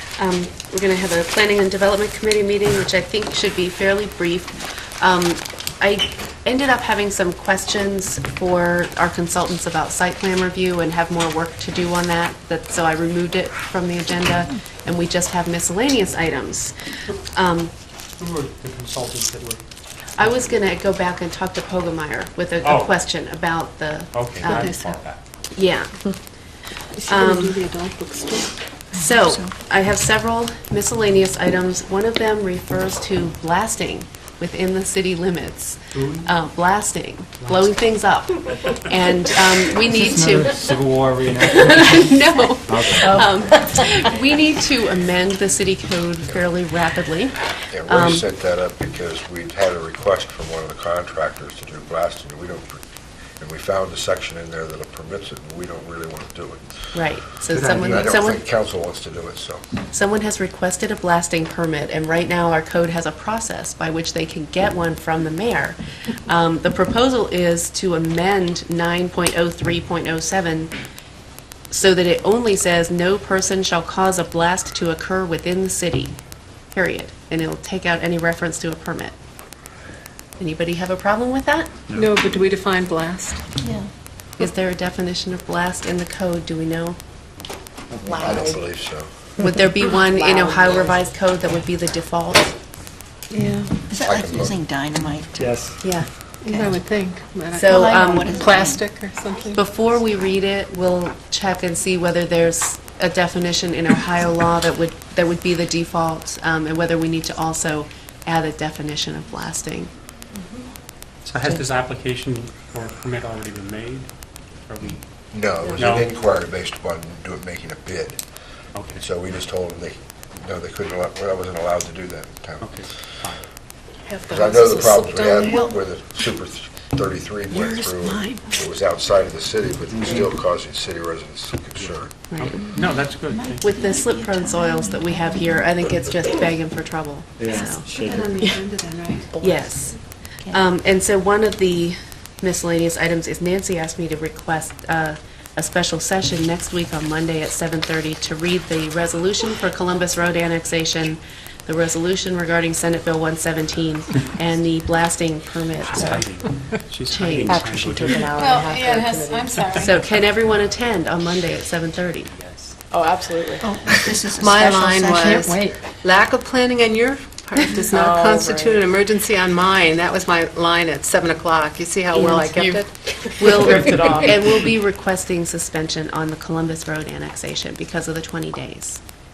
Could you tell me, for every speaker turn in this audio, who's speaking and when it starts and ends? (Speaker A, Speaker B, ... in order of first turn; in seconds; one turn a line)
Speaker A: 0.2-16.7
Speaker A: 17.3-17.7
Speaker B: 18.2-19.6
Speaker A: 20.2-24.7
Speaker B: 22.6-22.9
Speaker B: 24.1-25.2
Speaker C: 24.4-25.0
Speaker A: 25.5-26.1
Speaker A: 27.0-27.6
Speaker C: 27.0-28.6
Speaker A: 28.9-48.2
Speaker D: 28.9-29.5
Speaker B: 35.9-36.3
Speaker E: 39.9-43.8
Speaker F: 47.7-52.8
Speaker F: 53.4-56.7
Speaker A: 56.9-58.4
Speaker F: 57.5-59.6
Speaker A: 59.9-70.7
Speaker A: 71.7-76.1
Speaker A: 76.7-79.1
Speaker A: 80.4-81.7
Speaker C: 81.9-83.4
Speaker D: 83.6-83.9
Speaker A: 84.4-87.0
Speaker E: 87.9-88.3
Speaker C: 88.1-88.5
Speaker F: 88.1-89.1
Speaker A: 89.4-92.5
Speaker C: 90.2-90.9
Speaker C: 93.3-93.7
Speaker D: 93.9-95.5
Speaker F: 94.0-94.5
Speaker E: 95.4-95.8
Speaker A: 95.8-96.7
Speaker C: 96.4-99.6
Speaker A: 97.5-98.3
Speaker D: 97.6-98.8
Speaker A: 99.5-109.9
Speaker B: 111.2-114.1
Speaker B: 114.7-115.0
Speaker F: 115.3-118.2
Speaker B: 115.7-116.1
Speaker B: 118.7-119.0
Speaker F: 118.9-122.9
Speaker B: 122.6-123.4
Speaker C: 124.0-125.7
Speaker F: 124.3-132.1
Speaker D: 125.4-125.7
Speaker D: 127.5-128.5
Speaker E: 129.9-130.3
Speaker B: 131.8-133.7
Speaker A: 132.3-132.6
Speaker D: 132.8-135.7
Speaker A: 133.6-138.1
Speaker E: 137.4-138.4
Speaker D: 137.5-137.8
Speaker C: 137.9-139.5
Speaker A: 139.4-156.4
Speaker B: 155.9-158.4
Speaker A: 157.1-158.6
Speaker G: 157.5-159.6
Speaker C: 158.3-159.9
Speaker B: 159.6-159.9
Speaker A: 159.7-162.3
Speaker B: 162.3-162.8
Speaker G: 162.9-163.7
Speaker D: 163.6-165.6
Speaker C: 164.3-174.0
Speaker G: 165.1-165.8
Speaker G: 167.9-168.9
Speaker A: 172.1-179.0
Speaker G: 172.2-174.7